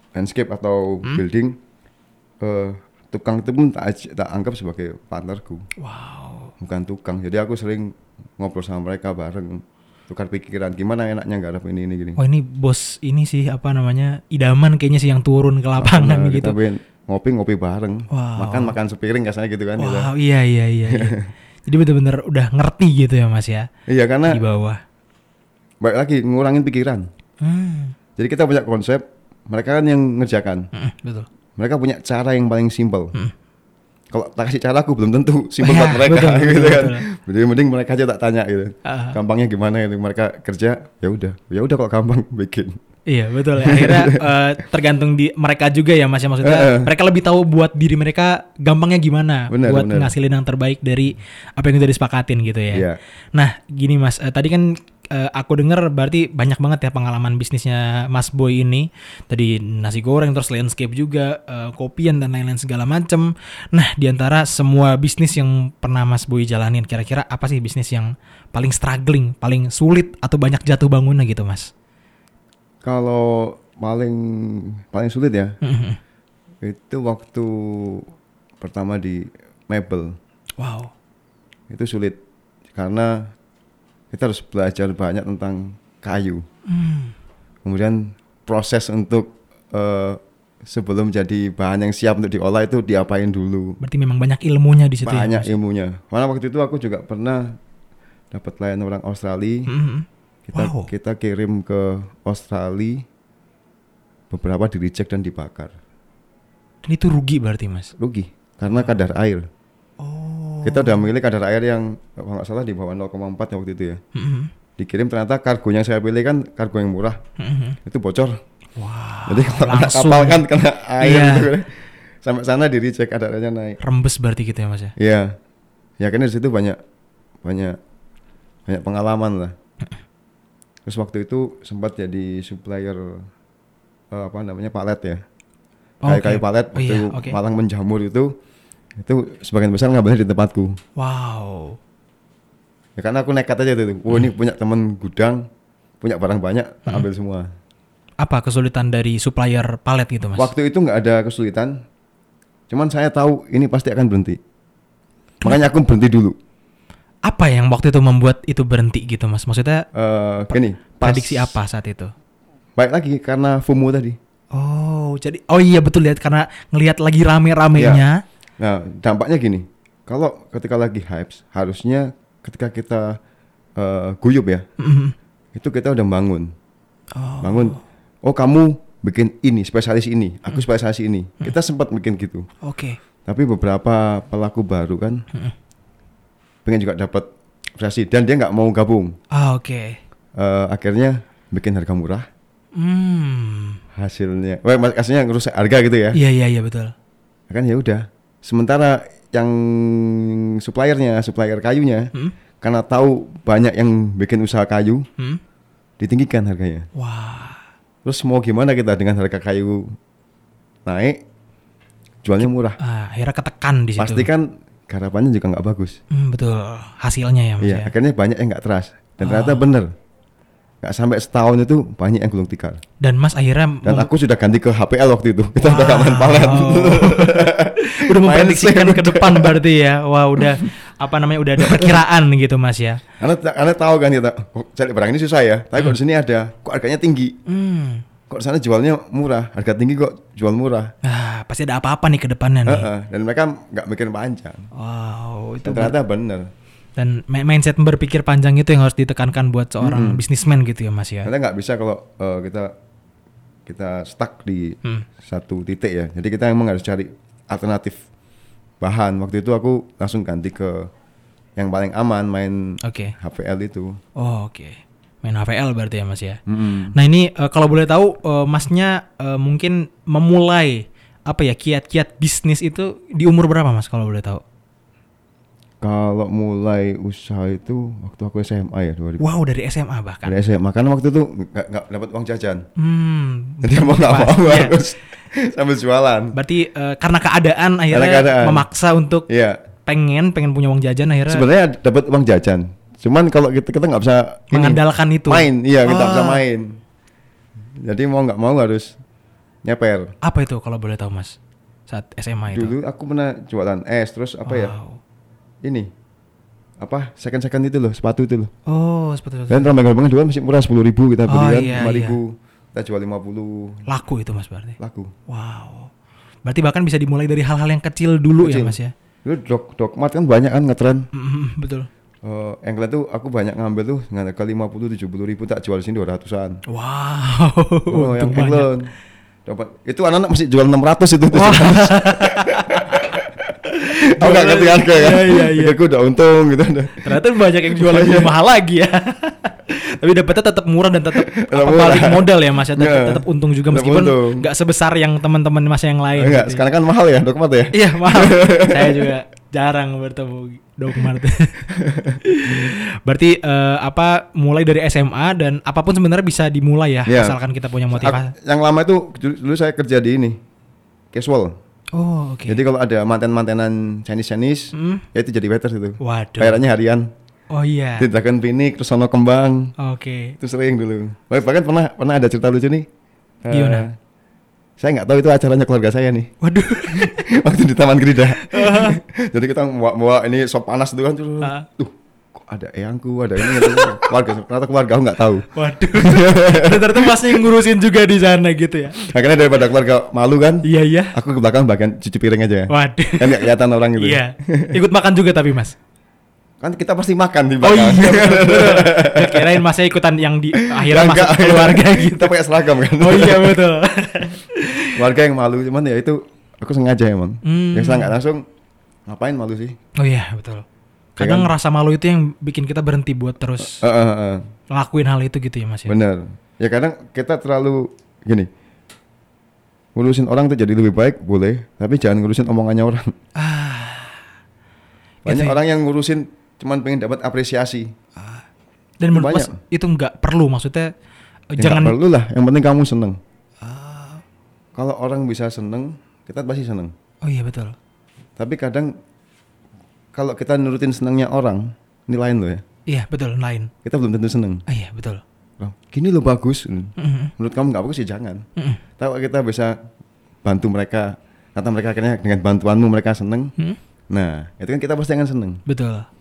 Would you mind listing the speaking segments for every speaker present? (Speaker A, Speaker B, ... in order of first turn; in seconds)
Speaker A: 0.1-1.6, 2.4-5.7, 6.6-12.2, 15.8-20.1, 20.9-21.3, 23.9-24.4, 25.8-27.1, 28.2-30.7, 31.6-33.1, 34.1-42.8, 43.6-44.2, 46.4-46.9, 49.5-50.1, 52.7-53.0, 72.8-75.6, 76.6-78.1, 78.6-80.2, 81.7-82.2, 82.7-83.3, 84.1-86.4, 87.7-93.8, 95.0-97.6, 98.3-99.7, 100.5-103.0, 104.3-105.8, 108.0-109.5, 110.7-114.0, 114.8-117.2, 117.8-118.4, 119.3-123.8, 125.0-125.4, 126.0-126.8, 127.4-127.8, 128.7-129.5, 130.9-133.3, 134.1-135.2, 136.1-138.3, 139.0-140.8, 143.0-145.4, 146.0-147.5, 150.4-151.8, 152.7-154.4, 155.4-156.3, 159.9-161.6, 162.8-164.2, 167.8-168.0, 168.6-173.2, 173.8-174.7, 175.5-176.5, 177.4-182.5, 183.3-185.2, 186.7-187.3, 187.8-189.2, 190.4-192.3, 194.0-196.2, 197.5-205.1, 206.0-206.9, 208.1-209.9, 210.9-211.2, 212.2-212.8, 214.0-216.0, 217.6-219.9, 220.8-222.8, 223.8-229.6, 231.6-232.0, 233.2-237.4, 238.3-240.9, 242.7-244.7, 245.6-246.5, 249.8-250.2, 251.2-252.7, 253.7-258.0, 258.8-260.9, 261.6-264.0, 266.5-266.9, 275.8-279.2, 280.2-282.7, 283.6-286.4, 287.9-288.6, 289.3-289.6, 291.3-296.8, 297.8-298.9, 299.6-300.1, 302.5-304.8, 306.8-308.5, 309.5-313.9, 314.8-315.1, 318.4-321.1, 322.2-326.6, 327.9-328.9, 329.5-333.5, 334.2-338.3, 341.3-344.4, 346.2-349.1, 351.7-352.7, 357.1-357.4, 357.9-360.4, 361.1-361.6, 362.5-367.1, 368.0-369.7, 370.4-372.9, 373.4-373.9, 374.8-376.3, 376.9-387.5, 389.0-394.8, 396.6-399.6, 400.5-403.6, 405.0-408.4, 409.1-409.8, 411.2-411.5, 413.6-414.4, 415.9-418.5, 419.9-423.1, 425.3-427.9, 429.1-429.6, 431.6-433.2, 434.8-436.9, 438.4-438.9, 440.1-442.6, 443.9-444.6, 445.6-448.4, 449.0-449.8, 450.4-453.5, 454.1-455.6
Speaker B: 5.8-6.5, 12.2-16.6, 18.1-18.8, 19.8-23.7, 24.3-24.8, 27.4-27.9, 30.7-31.3, 35.6-37.0, 38.9-39.2, 43.1-71.7, 75.6-76.0, 80.6-80.9, 86.7-87.1, 93.8-95.5, 99.7-100.9, 106.9-107.9, 108.7-109.0, 110.0-111.1, 114.2-114.5, 117.4-117.8, 118.8-120.4, 121.0-121.5, 123.8-124.9, 136.0-137.4, 141.0-141.8, 148.2-150.5, 157.3-159.8, 161.0-162.1, 164.5-168.2, 174.8-175.1, 177.1-177.8, 182.6-183.0, 189.3-190.0, 192.8-193.8, 196.1-196.9, 206.9-207.6, 212.8-214.3, 216.1-217.9, 219.2-219.7, 223.0-224.1, 225.6-233.0, 237.5-238.0, 241.0-242.9, 244.7-246.0, 247.0-251.3, 262.8-263.1, 264.2-266.4, 266.9-274.4, 279.2-280.4, 282.8-284.8, 286.3-289.3, 289.9-291.4, 294.5-296.4, 300.2-301.4, 301.9-302.7, 304.4-305.0, 308.7-309.7, 311.3-312.2, 313.9-314.8, 315.3-315.9, 316.5-318.9, 321.1-321.9, 326.7-328.7, 331.3-335.8, 337.0-346.6, 347.7-358.3, 361.9-362.6, 364.7-365.1, 366.0-366.6, 367.5-368.1, 369.8-370.4, 373.5-373.9, 376.4-377.3, 378.4-379.0, 381.4-381.7, 383.4-384.1, 385.5-389.1, 390.6-391.2, 392.7-395.8, 397.6-402.4, 403.0-405.0, 407.4-408.2, 410.0-410.6, 411.2-413.8, 414.7-415.9, 423.4-424.2, 425.3-425.6, 428.2-428.4, 429.0-430.9, 431.5-431.9, 433.6-434.2, 437.2-437.8, 442.9-443.7, 444.7-445.2, 447.0-447.3, 455.7-456.1